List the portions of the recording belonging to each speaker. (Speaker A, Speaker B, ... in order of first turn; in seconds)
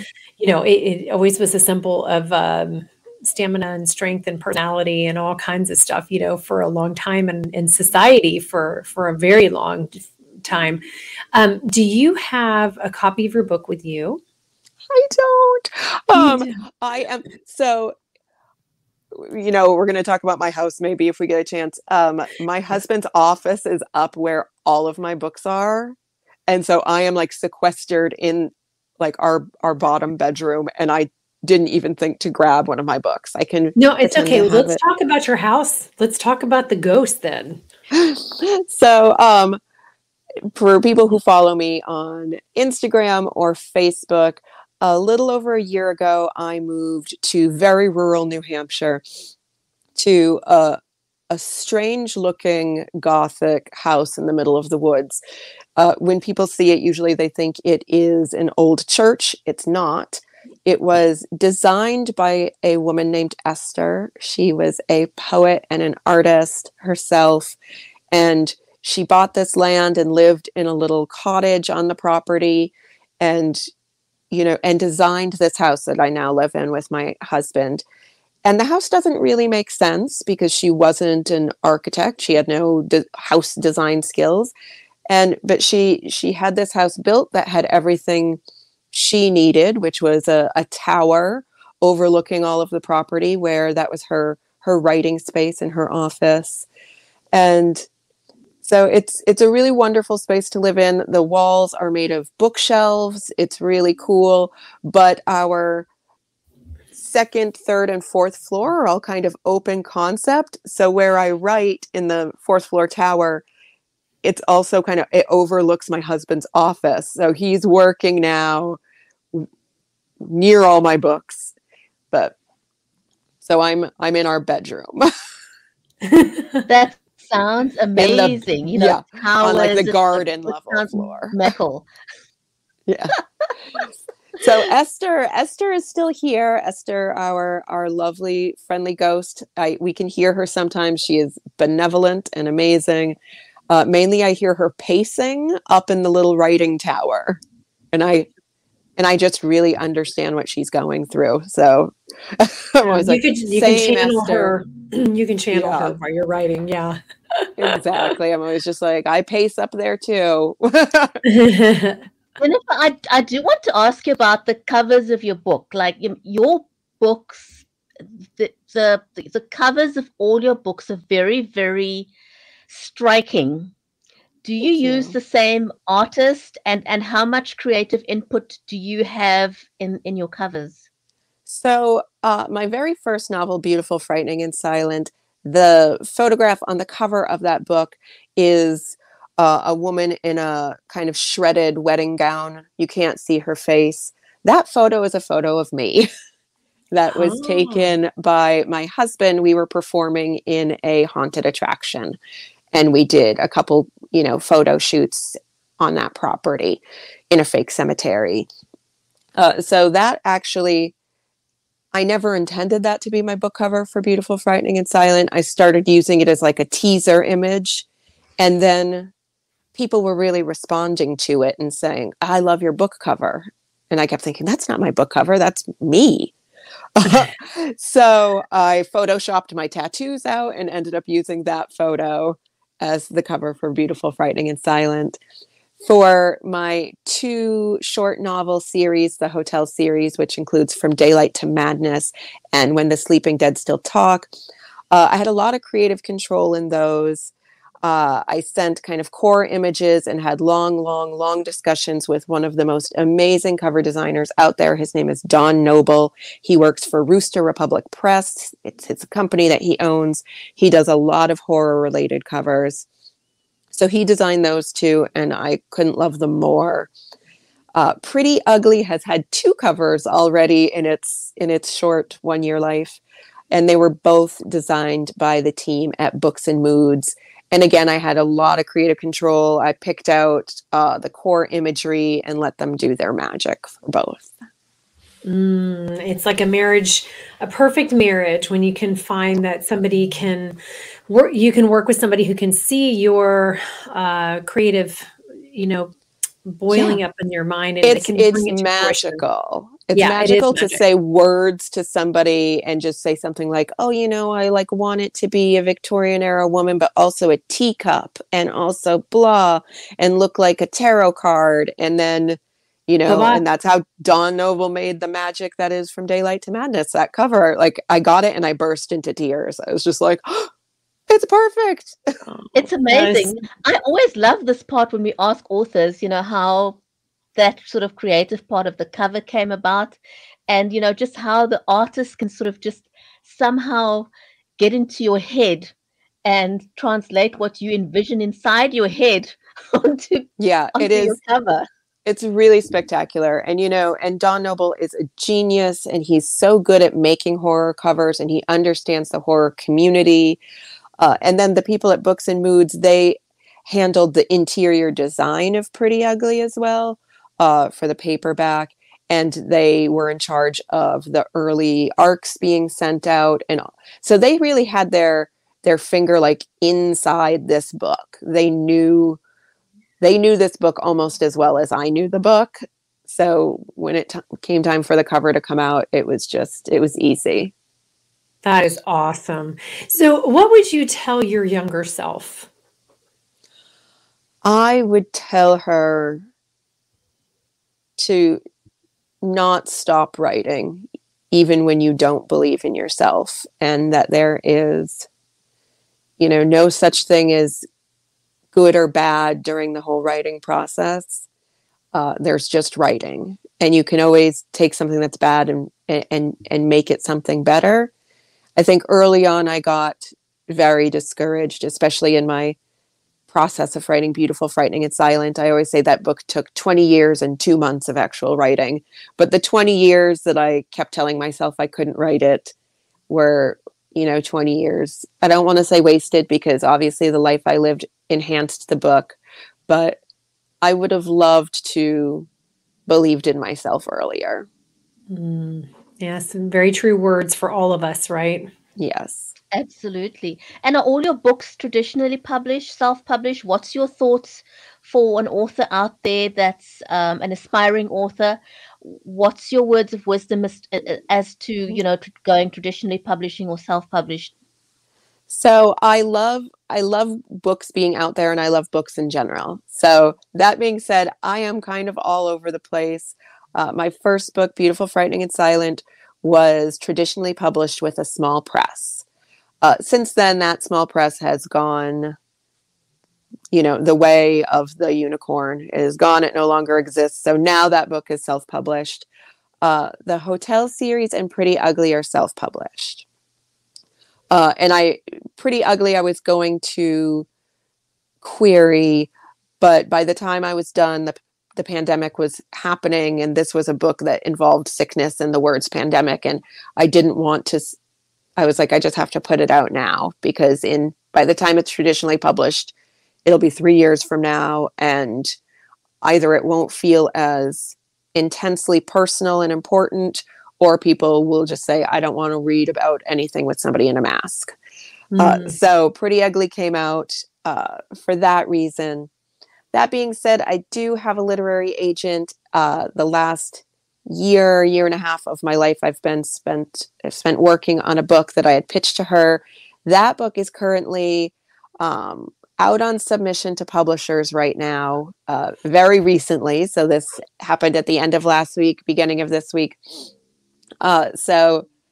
Speaker A: 0.4-10.8, 11.3-14.2, 16.1-16.6, 33.8-37.6, 126.0-126.7, 152.9-157.5, 161.2-162.0, 197.1-197.9, 285.2-295.9, 296.4-299.2, 299.9-300.8, 313.1-313.4, 322.3-323.3, 378.4-382.5, 435.1-438.5, 515.1-515.5
Speaker B: 14.9-18.0, 19.1-26.0, 26.5-34.8, 37.9-39.6, 40.5-49.0, 50.0-50.8, 51.3-55.2, 55.8-67.6, 68.1-73.6, 74.3-77.8, 78.4-84.5, 85.1-88.4, 88.9-96.7, 97.3-97.9, 98.6-105.9, 106.9-113.4, 114.2-118.8, 120.2-121.5, 123.4-125.1, 128.0-131.3, 132.9-133.1, 133.7-143.2, 143.7-147.4, 147.9-148.3, 149.0-154.5, 155.5-156.0, 157.6-161.2, 174.6-175.1, 181.5-196.1, 196.9-202.2, 202.7-208.5, 209.4-210.9, 211.9-217.9, 218.4-219.1, 219.7-226.3, 226.9-235.2, 235.8-244.3, 244.9-247.3, 247.8-262.9, 263.7-266.9, 267.7-273.0, 273.5-284.3, 296.7-297.0, 297.8-320.5, 321.1-322.0, 340.4-341.2, 342.0-350.4, 351.0-369.2, 370.0-377.5, 384.4-386.2, 388.0-388.4, 389.2-395.1, 396.2-397.6, 398.5-401.3, 401.9-407.9, 408.6-412.6, 413.3-422.5, 423.1-429.2, 429.7-430.0, 430.6-432.3, 432.9-434.5, 438.8-439.3, 455.3-469.0, 469.6-472.2, 473.5-479.1, 479.6-483.1, 484.3-487.3, 488.2-497.8, 498.4-502.7, 503.2-505.4, 506.0-514.5, 515.2-519.1, 519.7-540.1, 540.8-541.7
Speaker C: 126.7-131.9, 162.4-167.6, 168.2-172.1, 172.7-173.7, 174.4-180.8, 322.5-326.8, 327.4-335.7, 336.2-341.7, 439.5-454.3